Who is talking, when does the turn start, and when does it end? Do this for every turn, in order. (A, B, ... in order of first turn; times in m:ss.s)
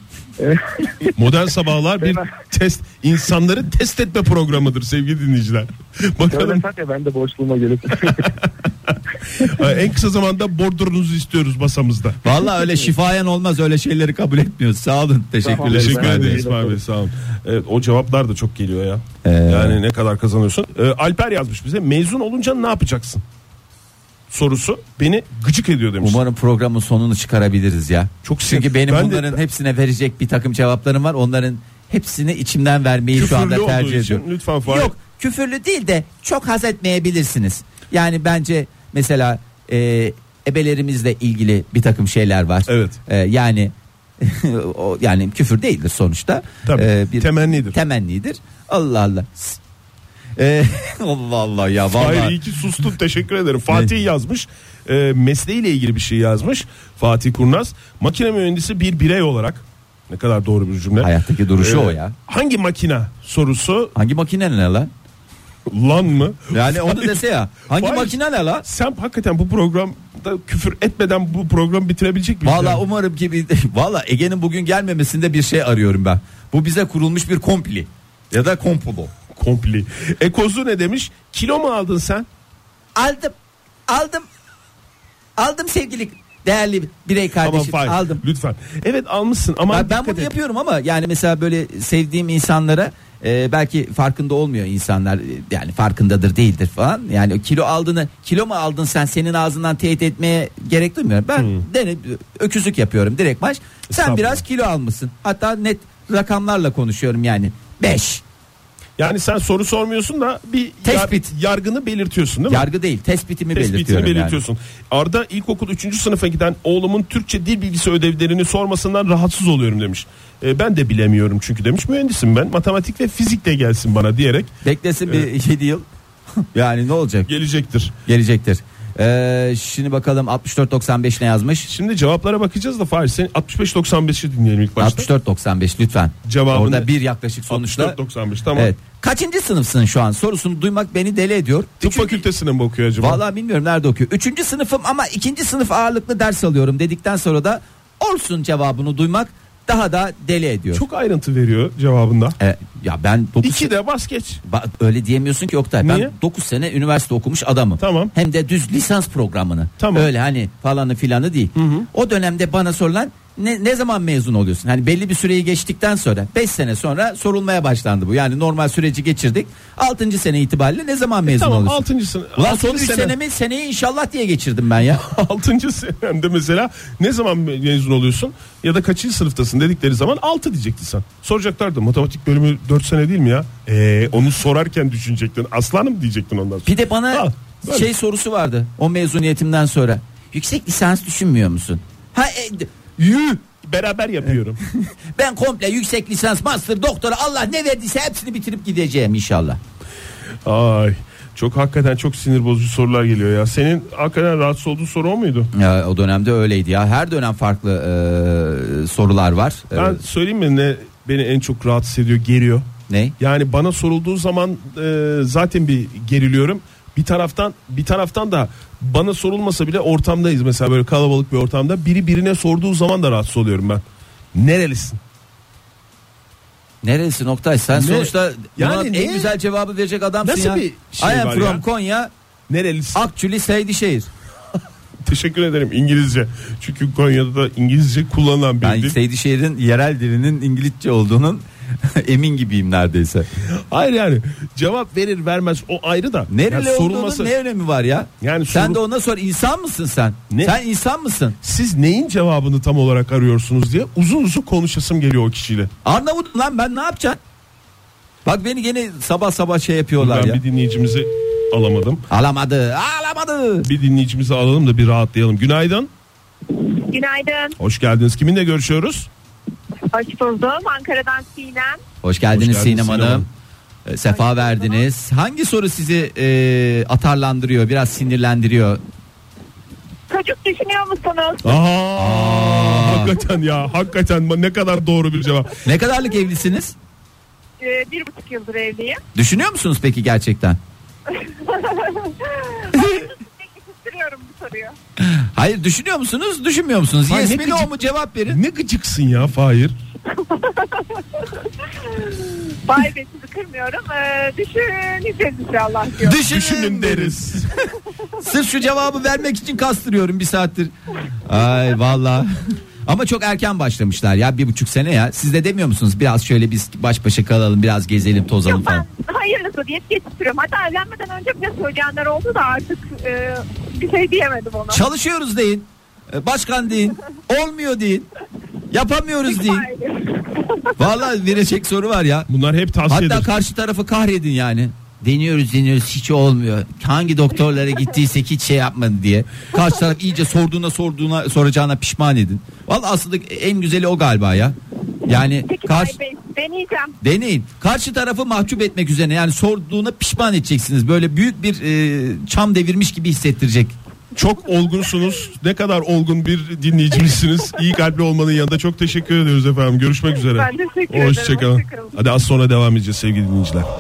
0:00.4-0:01.1 A
0:01.2-0:06.6 B
0:02.0-0:02.3 A
0:06.3-0:08.3 A
0:08.0-0:12.2 B
0:12.2-0:16.4 C
0:15.4-0:16.8 A
0:15.5-0:23.2 B
0:19.2-0:19.8 C
0:24.3-0:26.2 B
0:26.0-0:49.6 C
0:28.2-0:29.4 B
0:33.1-0:34.9 B
0:42.7-0:43.0 B
0:46.6-0:47.8 B
0:50.4-0:52.4 C
0:51.9-1:03.9 B
1:01.0-1:02.2 C
1:04.0-1:04.9 C
1:05.7-1:12.8 B
1:06.5-1:08.7 C
1:12.4-1:19.1 C
1:19.3-1:22.3 B
1:23.0-1:23.3 C
1:23.9-1:24.2 C
1:25.4-1:28.2 C
1:27.4-1:30.3 B
1:29.7-1:48.2 C
1:41.4-1:41.6 B
1:43.9-1:44.4 B
1:49.0-1:52.7 B
1:50.8-1:51.3 C
1:52.5-1:54.4 C
1:53.5-2:04.5 B
2:04.6-2:07.3 C
2:07.3-2:07.9 B
2:08.1-2:11.7 C
2:11.7-2:15.1 B
2:14.8-2:18.0 C
2:16.2-2:16.9 B
2:17.5-2:18.7 B
2:18.6-2:22.2 C
2:21.8-2:23.2 B
2:23.0-2:30.8 C
2:30.7-2:32.4 B
2:32.4-2:33.7 C
2:33.4-2:34.4 B
2:34.4-2:51.8 C
2:35.8-2:36.1 B
2:37.8-2:38.1 B
2:39.8-2:40.1 B
2:41.6-2:41.9 B
2:51.2-2:53.2 B
2:52.4-2:55.0 C
2:54.9-3:07.9 B
3:06.7-3:13.4 C
3:13.6-3:14.6 B
3:14.7-3:19.6 C
3:20.4-3:25.5 B
3:25.5-3:30.0 C
3:29.7-3:32.7 B
3:32.9-3:33.2 C
3:33.2-3:43.8 B
3:44.3-3:45.0 B
3:46.8-3:52.1 C
3:47.7-3:49.3 B
3:50.2-3:51.6 B
3:52.5-3:53.0 B
3:53.0-3:54.1 C
3:55.0-3:59.0 B
3:58.6-4:03.3 C
4:03.6-4:07.4 B
4:06.3-4:11.4 C
4:08.2-4:08.8 B
4:10.3-4:10.6 B
4:11.4-4:15.7 B
4:15.8-4:17.2 C
4:18.2-4:20.4 C
4:20.0-4:22.0 B
4:22.1-4:23.7 C
4:23.6-4:25.9 B
4:26.5-4:27.6 D
4:27.6-4:29.1 B
4:29.9-4:31.8 D
4:32.0-4:33.3 C
4:32.3-4:33.3 B
4:33.9-4:38.8 C
4:34.6-4:34.8 D
4:40.1-4:41.6 D
4:41.4-4:45.6 B
4:42.0-4:43.1 C
4:45.6-4:46.8 C
4:47.6-4:49.0 D
4:49.2-4:50.6 C
4:51.1-4:54.8 D
4:55.0-4:58.4 C
4:57.1-4:57.7 B
4:58.3-4:59.8 B
5:00.2-5:06.2 D
5:06.0-5:07.2 C
5:06.2-5:07.5 B
5:08.2-5:10.7 C
5:11.3-5:12.3 C
5:12.9-5:18.9 C
5:18.4-5:24.8 D
5:24.7-5:28.1 C
5:28.7-5:29.7 C
5:29.2-5:30.7 D
5:30.8-5:32.3 C
5:32.3-5:33.3 B
5:32.9-5:44.6 C
5:45.1-5:46.0 C
5:45.2-5:47.0 D
5:47.0-5:53.8 C
5:54.1-6:03.7 B
6:00.3-6:02.0 D